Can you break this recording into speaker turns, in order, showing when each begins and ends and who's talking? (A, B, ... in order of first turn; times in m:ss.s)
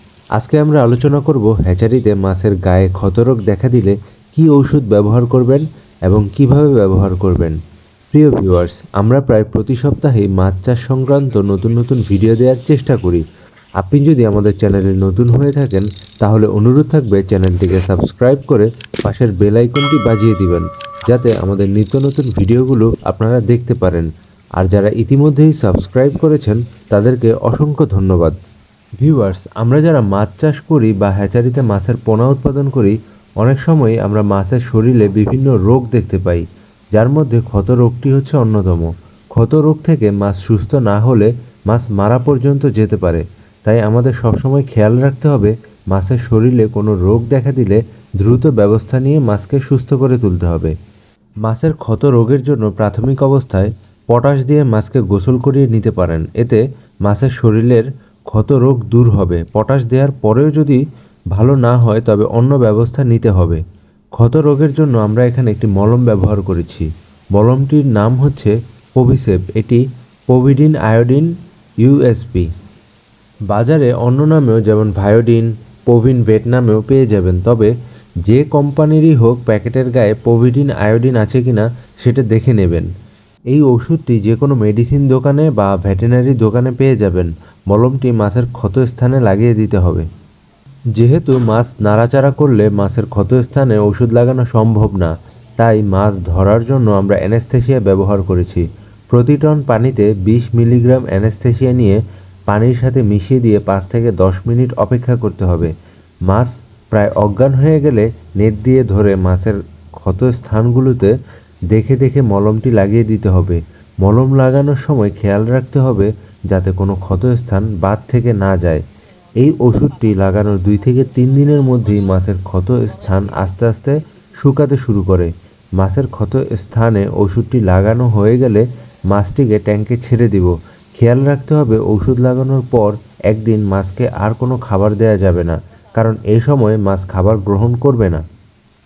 0:00.4-0:07.6 A
0:08.1-0:13.2 A
0:13.8-0:28.4 A
0:29.0-0:50.7 A
0:51.4-1:00.8 A
1:01.3-1:03.6 A
1:04.2-1:12.5 A
1:13.5-1:17.7 A
1:18.2-1:22.9 A
1:23.5-1:30.0 A
1:31.0-1:45.7 A
1:46.3-1:51.1 A
1:51.7-1:58.8 A
1:59.4-2:18.2 A